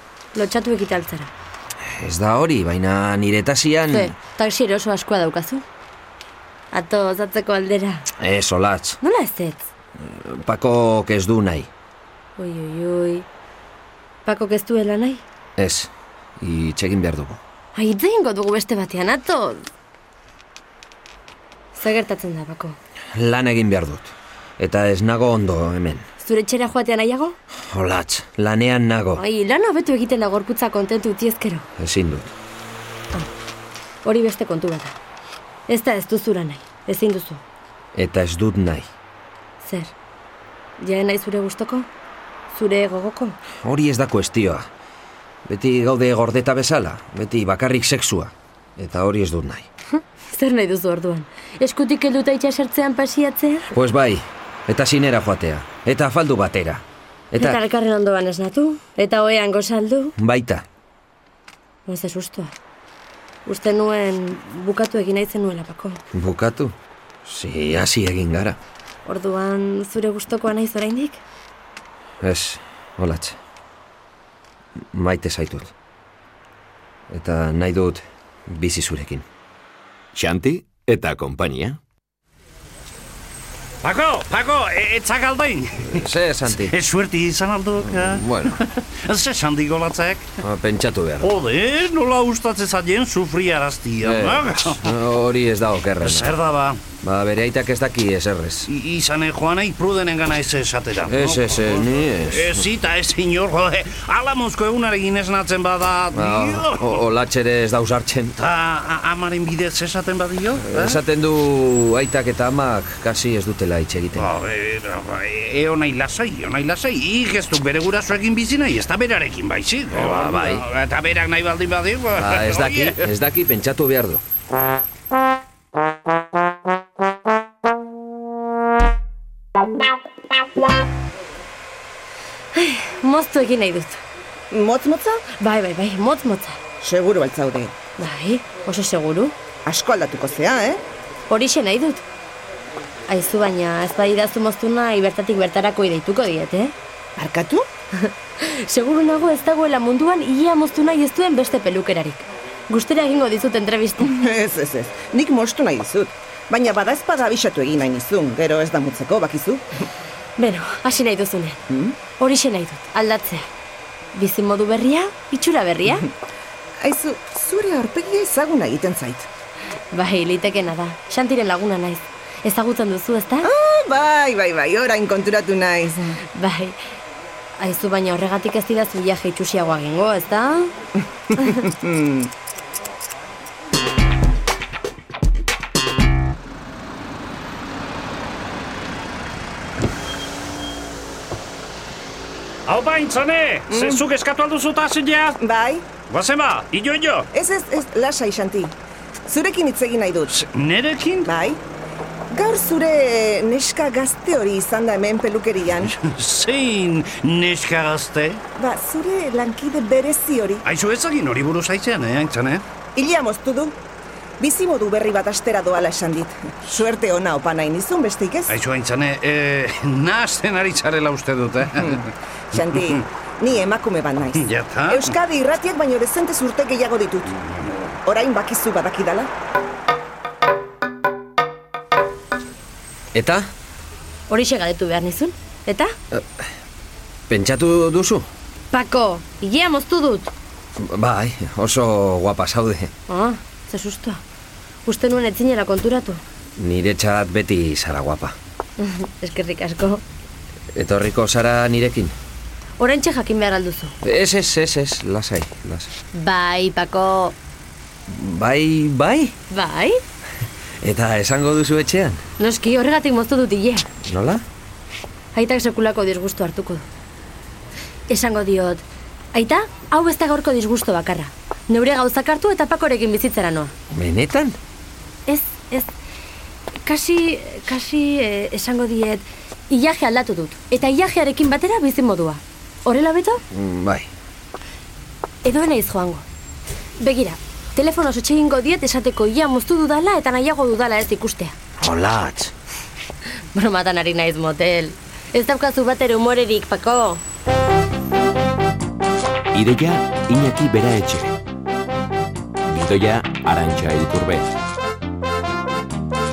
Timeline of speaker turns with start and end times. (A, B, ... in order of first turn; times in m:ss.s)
0:00.3-0:01.3 A
0:01.8-0:04.1 B
0:03.9-0:05.6 A
0:06.7-0:08.1 A
0:08.2-0:09.0 B
0:09.0-0:09.6 A
0:10.0-0:11.7 B
0:12.4-0:13.2 A
0:14.2-0:15.2 A
0:15.6-0:17.4 B
0:17.7-0:19.7 A
0:21.7-0:22.8 A
0:23.1-0:26.0 B
0:26.2-0:27.4 A
0:27.7-0:29.2 B
0:29.2-0:31.6 A
0:31.8-0:32.3 B
0:34.0-0:34.9 A
0:35.7-0:37.4 A
0:37.9-0:38.8 B
0:39.6-0:39.9 A
0:40.8-0:41.9 A
0:42.5-0:43.4 A
0:43.6-0:44.6 B
0:45.4-0:49.6 B
0:50.0-0:53.7 A
0:53.7-0:57.6 B
0:57.4-1:00.1 A
1:00.2-1:00.6 B
1:01.8-1:02.5 A
1:03.4-1:06.0 A
1:06.1-1:08.6 B
1:09.0-1:11.2 A
1:12.2-1:13.4 B
1:14.9-1:15.7 B
1:17.1-1:19.2 B
1:20.1-1:21.8 C
1:23.8-1:30.4 D
1:25.8-1:26.7 B
1:27.8-1:28.6 B
1:30.4-1:31.3 B
1:31.2-1:34.9 D
1:34.0-1:36.3 B
1:36.0-1:36.8 D
1:37.0-1:38.7 B
1:38.6-1:47.0 D
1:41.0-1:42.6 B
1:46.1-1:48.4 B
1:48.4-1:51.0 D
1:50.6-1:54.3 B
1:54.2-2:03.0 D
1:59.9-2:00.6 B
2:02.2-2:04.2 B
2:12.5-2:14.0 A
2:14.5-2:15.2 E
2:15.4-2:16.6 A
2:16.8-2:17.7 E
2:18.0-2:19.3 A
2:19.6-2:20.8 E
2:21.3-2:22.0 A
2:23.1-2:26.7 A
2:27.2-2:27.7 E
2:28.0-2:34.2 A
2:34.0-2:39.6 E
2:40.4-2:41.6 A
2:41.7-2:42.0 E
2:42.2-2:43.4 A
2:44.1-2:46.1 A
2:46.8-2:49.3 E
2:49.9-2:53.5 A
2:53.4-2:56.2 E
2:56.2-2:56.8 A
2:57.6-3:00.7 A
3:01.3-3:02.3 E
3:12.6-3:15.4 D
3:13.7-3:14.0 E
3:15.4-3:15.8 E
3:16.1-3:17.3 D
3:17.3-3:18.7 E
3:19.2-3:20.4 E
3:20.3-3:21.3 D
3:21.2-3:21.6 E
3:22.3-3:25.9 E
3:25.8-3:28.4 D
3:28.6-3:30.6 E
3:30.6-3:32.6 D
3:32.9-3:33.8 E
3:34.4-3:38.5 E
3:38.5-3:42.1 D
3:42.5-3:49.3 E
3:44.3-3:45.1 D
3:53.1-3:53.5 B
3:54.3-3:55.9 A
3:57.3-3:58.2 B
3:58.7-4:00.3 A
4:00.8-4:02.9 B
4:03.1-4:04.2 A
4:04.8-4:06.2 A
4:06.6-4:08.4 B
4:08.8-4:10.0 A
4:10.7-4:12.1 B
4:12.8-4:14.0 A
4:14.0-4:15.9 B
4:16.1-4:17.3 A
4:18.1-4:19.3 B
4:19.5-4:20.0 A
4:20.8-4:22.2 B
4:22.4-4:23.9 A
4:24.0-4:24.4 B
4:25.3-4:26.8 A
4:28.1-4:33.7 A
4:33.9-4:34.6 B
4:35.3-4:35.9 A
4:36.8-4:43.4 A
4:43.5-4:44.1 B
4:45.4-4:46.2 A
4:47.0-4:51.5 A
4:51.8-4:52.5 B
4:53.5-4:57.2 A
4:59.5-5:01.4 C
5:02.6-5:04.5 C